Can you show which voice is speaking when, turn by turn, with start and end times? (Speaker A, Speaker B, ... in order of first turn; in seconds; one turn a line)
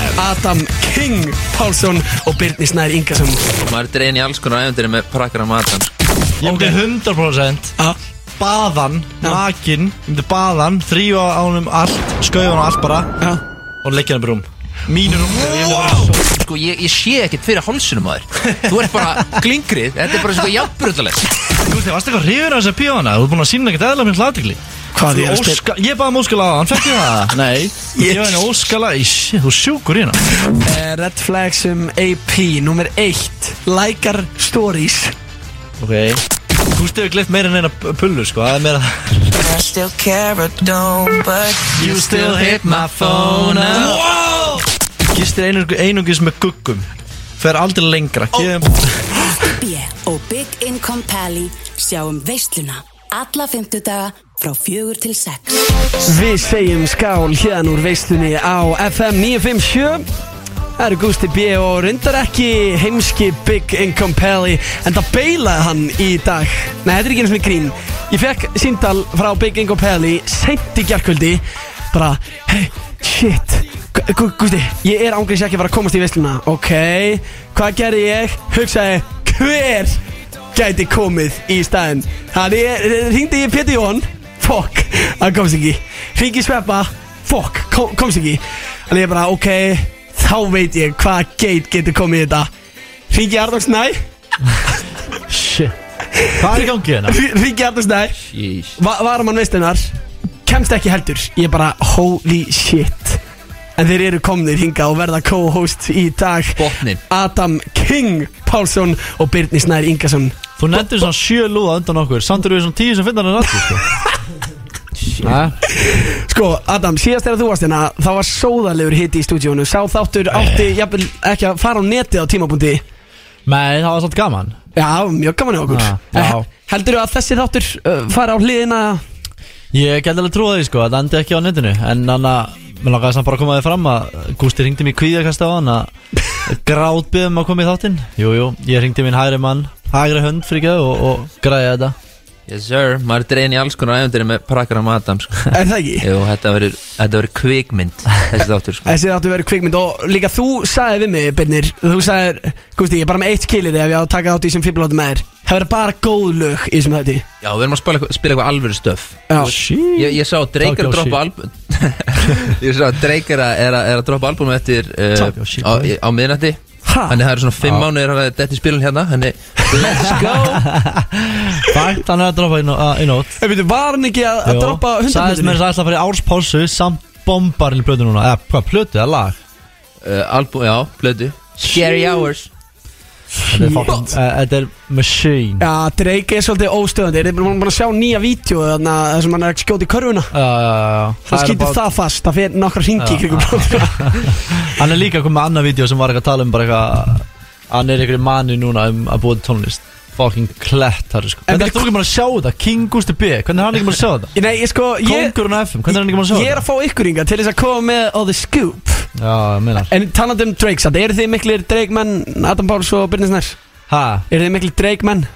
Speaker A: 0.2-3.5
Speaker B: 3.6-5.9
Speaker C: 6.4-7.7
Speaker A: 6.4-6.8
Speaker C: 8.4-13.1
Speaker C: 13.8-16.2
Speaker B: 15.4-21.2
Speaker C: 21.6-30.2
Speaker A: 24.9-25.6
Speaker A: 28.0-28.4
Speaker A: 30.6-35.1
Speaker C: 35.8-39.3
Speaker D: 39.4-41.8
Speaker C: 41.8-46.9
Speaker B: 41.8-44.0
Speaker C: 47.4-48.8
Speaker E: 49.6-55.6
Speaker A: 56.0-60.0
Speaker A: 60.8-71.4
Speaker A: 71.9-80.0
Speaker A: 80.5-92.5
Speaker A: 93.1-94.0
Speaker C: 95.3-95.8
Speaker A: 96.2-98.2
Speaker C: 96.4-97.2
Speaker B: 98.3-98.8
Speaker A: 98.8-99.9
Speaker A: 100.5-103.2
Speaker A: 103.8-110.3
Speaker B: 106.6-107.0
Speaker C: 110.6-113.8
Speaker C: 115.2-115.6
Speaker A: 115.7-122.8
Speaker C: 120.3-120.7
Speaker C: 123.5-124.6
Speaker A: 124.8-129.0
Speaker C: 125.7-126.5
Speaker C: 129.7-135.9
Speaker C: 136.4-141.9
Speaker B: 142.5-148.9
Speaker A: 145.5-146.1
Speaker A: 148.9-157.2
Speaker B: 157.4-170.6
Speaker C: 159.4-161.2
Speaker C: 165.2-165.9
Speaker A: 166.9-167.2
Speaker C: 167.6-167.9
Speaker C: 169.9-173.3
Speaker A: 173.4-175.6
Speaker C: 174.4-179.4
Speaker B: 180.0-182.5
Speaker C: 181.7-182.0
Speaker A: 183.4-184.2
Speaker C: 183.5-185.7
Speaker A: 185.6-190.3
Speaker C: 190.3-191.8
Speaker A: 191.3-194.3
Speaker C: 193.0-204.3
Speaker A: 201.5-201.9
Speaker A: 204.3-205.4
Speaker C: 205.0-206.6
Speaker A: 205.9-209.1
Speaker C: 209.2-209.9
Speaker A: 209.9-213.6
Speaker C: 213.9-214.2
Speaker A: 214.3-215.3